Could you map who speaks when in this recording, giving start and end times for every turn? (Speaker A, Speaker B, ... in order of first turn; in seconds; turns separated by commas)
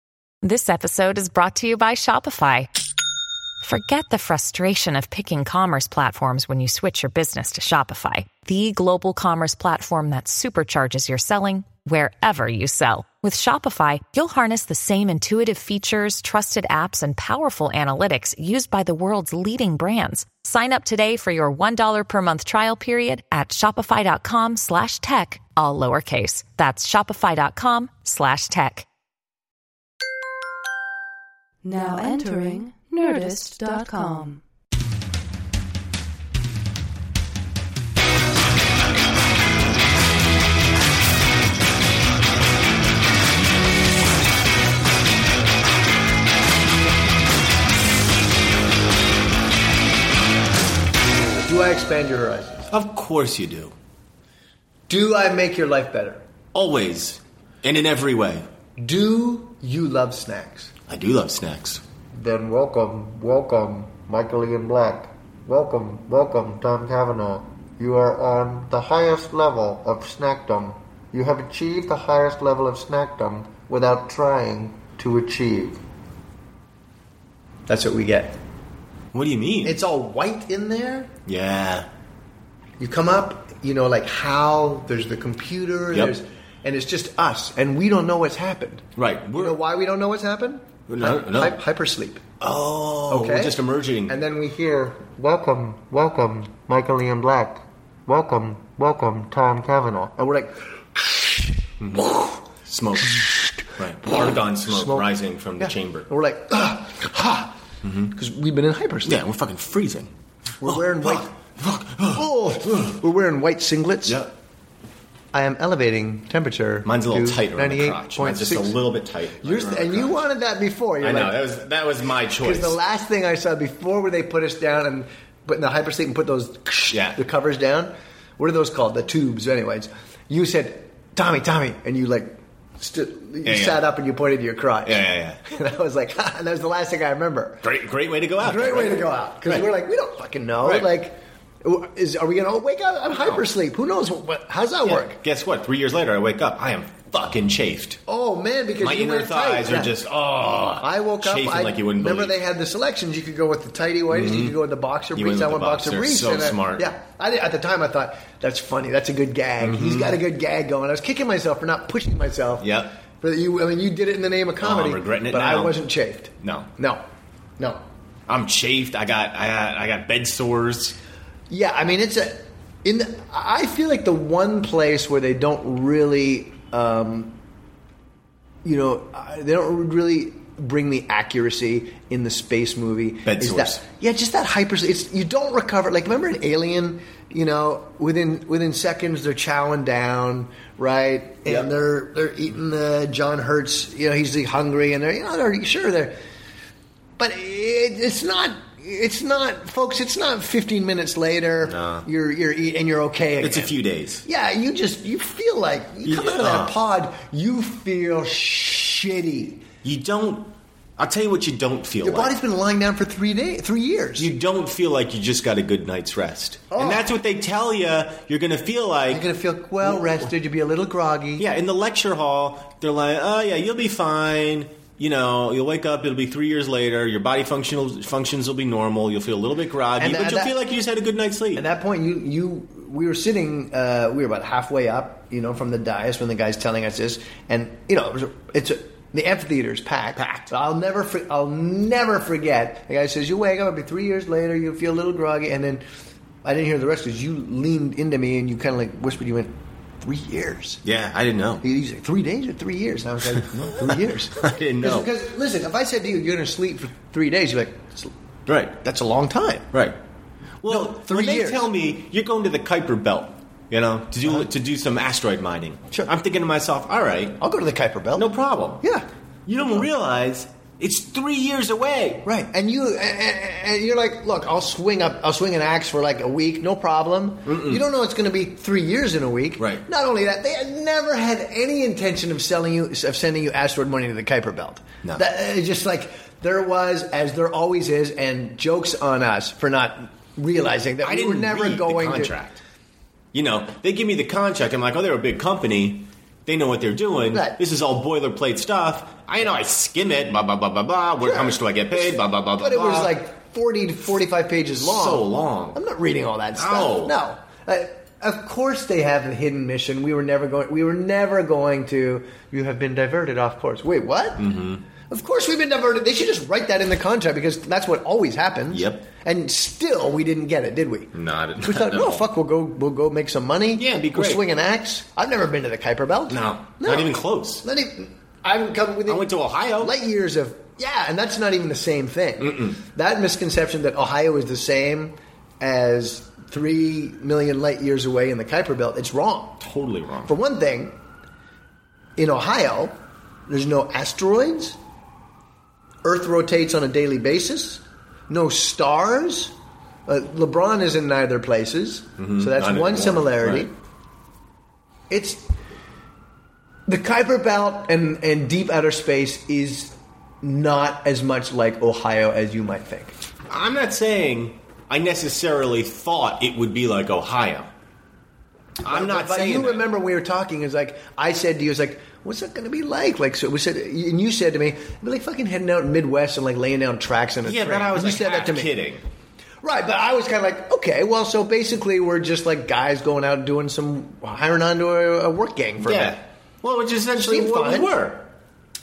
Speaker A: 0.4-2.7, Speaker A: 3.6-28.9, Speaker B: 31.6-34.4, Speaker C: 51.4-52.7, Speaker D: 52.7-53.7, Speaker C: 54.9-56.2, Speaker D: 56.5-58.5, Speaker C: 58.8-60.7, Speaker D: 60.9-61.8, Speaker C: 62.1-75.8, Speaker C: 77.7-78.4, Speaker D: 79.1-79.8, Speaker C: 79.6-81.1, Speaker D: 81.3-81.9, Speaker C: 82.8-88.8, Speaker D: 89.0-89.6, Speaker C: 89.4-92.2, Speaker D: 90.9-91.6, Speaker D: 92.4-94.2, Speaker C: 93.1-102.4, Speaker D: 101.8-102.1, Speaker D: 102.7-106.1, Speaker C: 103.0-107.5, Speaker D: 107.8-108.1, Speaker C: 108.1-109.2, Speaker D: 109.0-113.0, Speaker C: 110.6-111.4, Speaker C: 112.1-114.2, Speaker D: 114.0-114.3, Speaker C: 115.3-118.8, Speaker D: 116.8-120.2, Speaker C: 119.4-121.4, Speaker D: 121.0-122.8, Speaker C: 122.4-137.6, Speaker D: 126.9-127.2, Speaker D: 133.4-133.8, Speaker D: 134.8-135.4, Speaker D: 137.6-139.7, Speaker C: 138.4-145.2, Speaker D: 140.6-140.9, Speaker D: 144.8-148.0, Speaker C: 148.1-167.0, Speaker D: 148.8-152.4, Speaker D: 154.1-154.6, Speaker D: 155.2-156.9, Speaker D: 159.6-160.2, Speaker D: 162.6-162.9, Speaker D: 164.6-165.8, Speaker D: 166.4-166.7, Speaker D: 168.3-171.0, Speaker C: 171.5-177.4, Speaker C: 178.6-196.2, Speaker D: 183.2-183.8, Speaker C: 197.2-209.6, Speaker D: 201.7-202.1, Speaker D: 203.4-204.2, Speaker D: 206.1-206.8, Speaker D: 209.8-212.3, Speaker C: 212.0-214.3, Speaker D: 214.2-219.2, Speaker C: 216.7-217.1, Speaker C: 219.1-221.5, Speaker D: 221.4-231.6, Speaker C: 230.0-230.6, Speaker C: 231.5-245.8, Speaker D: 240.2-240.5, Speaker C: 246.4-250.8, Speaker D: 250.8-251.6, Speaker C: 251.6-258.1, Speaker D: 253.9-255.1, Speaker D: 258.5-258.8, Speaker C: 258.7-259.7, Speaker D: 260.6-267.4, Speaker C: 260.7-261.6, Speaker C: 267.4-268.3, Speaker D: 268.1-268.8, Speaker C: 268.8-269.1, Speaker D: 269.5-272.3, Speaker C: 272.2-292.4, Speaker D: 277.5-277.8, Speaker D: 279.6-279.8, Speaker D: 291.0-292.6, Speaker D: 293.3-303.2, Speaker C: 297.3-297.6, Speaker C: 301.2-301.6, Speaker C: 302.6-314.5, Speaker D: 304.8-305.8, Speaker D: 306.6-307.1, Speaker D: 314.4-314.8, Speaker C: 315.1-339.6, Speaker D: 318.7-319.1, Speaker D: 321.1-322.3, Speaker D: 323.8-324.4, Speaker D: 326.3-327.6, Speaker D: 329.1-329.9, Speaker D: 332.4-332.8, Speaker D: 339.6-340.3, Speaker C: 340.2-340.9, Speaker C: 342.2-342.9, Speaker C: 343.5-344.8, Speaker C: 346.0-349.5, Speaker C: 350.1-353.7, Speaker D: 352.2-353.7, Speaker C: 355.1-355.5, Speaker C: 356.9-363.1, Speaker D: 363.5-367.7, Speaker D: 368.8-369.9, Speaker C: 368.9-378.8, Speaker D: 377.4-379.0, Speaker C: 379.6-386.2, Speaker D: 385.8-388.3, Speaker C: 387.2-388.1